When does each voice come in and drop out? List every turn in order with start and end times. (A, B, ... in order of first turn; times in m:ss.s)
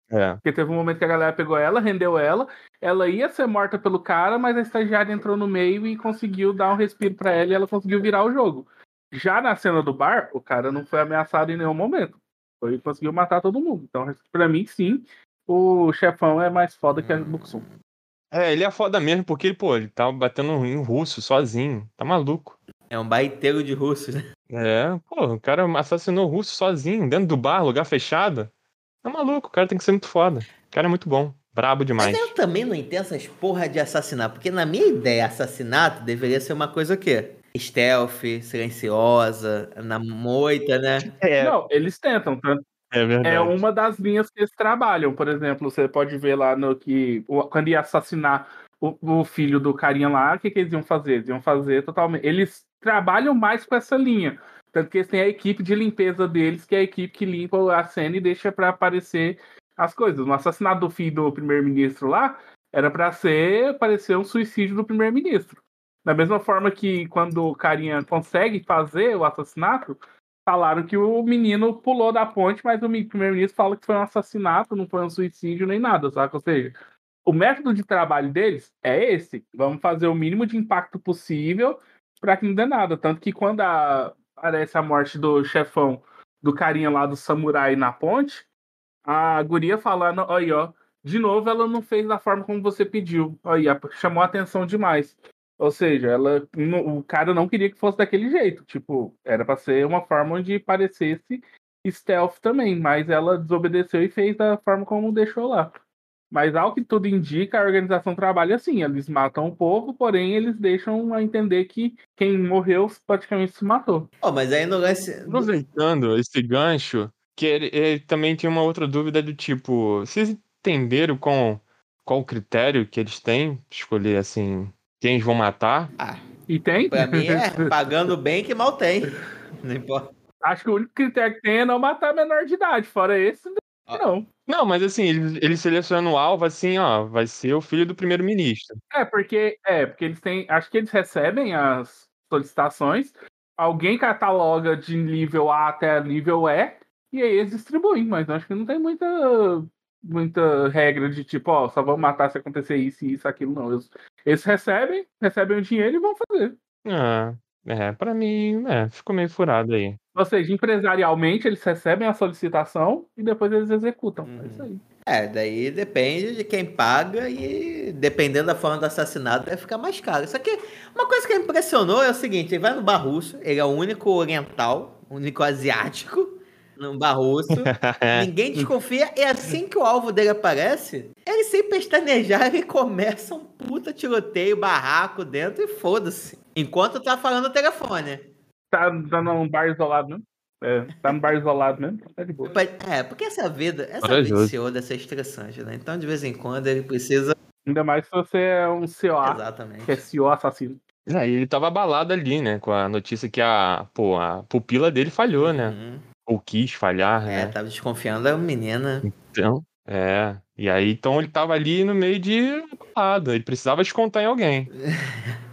0:00.1-0:00.4 A
0:00.4-0:17.6 B
0:16.9-0:17.7 C
0:18.3-0:22.6 A
0:22.9-0:24.2 C
0:24.5-0:28.5 A
0:29.0-0:32.3 A
0:32.0-0:41.1 C
0:41.0-0:41.5 A
0:41.4-0:42.6 B
0:42.9-0:43.6 A
0:43.2-1:16.7 B
1:17.2-1:28.4 B
1:29.0-1:45.7 B
1:46.3-1:54.1 B
1:54.2-1:55.5 C
1:55.3-2:05.9 A
2:06.5-2:08.1 B
2:06.9-2:10.1 C
2:10.4-2:14.3 B
2:14.5-2:18.8 A
2:18.9-2:36.6 B
2:36.8-2:40.0 A
2:40.1-2:44.8 B
2:44.2-3:08.2 C
2:57.5-2:58.3 A
3:08.7-3:12.5 B
3:12.4-3:17.3 C
3:14.0-3:14.5 A
3:17.6-3:20.8 B
3:19.2-3:20.0 C
3:21.1-3:25.8 A
3:25.4-3:26.0 C
3:26.3-3:27.5 A
3:27.3-3:29.1 C
3:29.0-3:34.7 A
3:34.8-3:35.3 C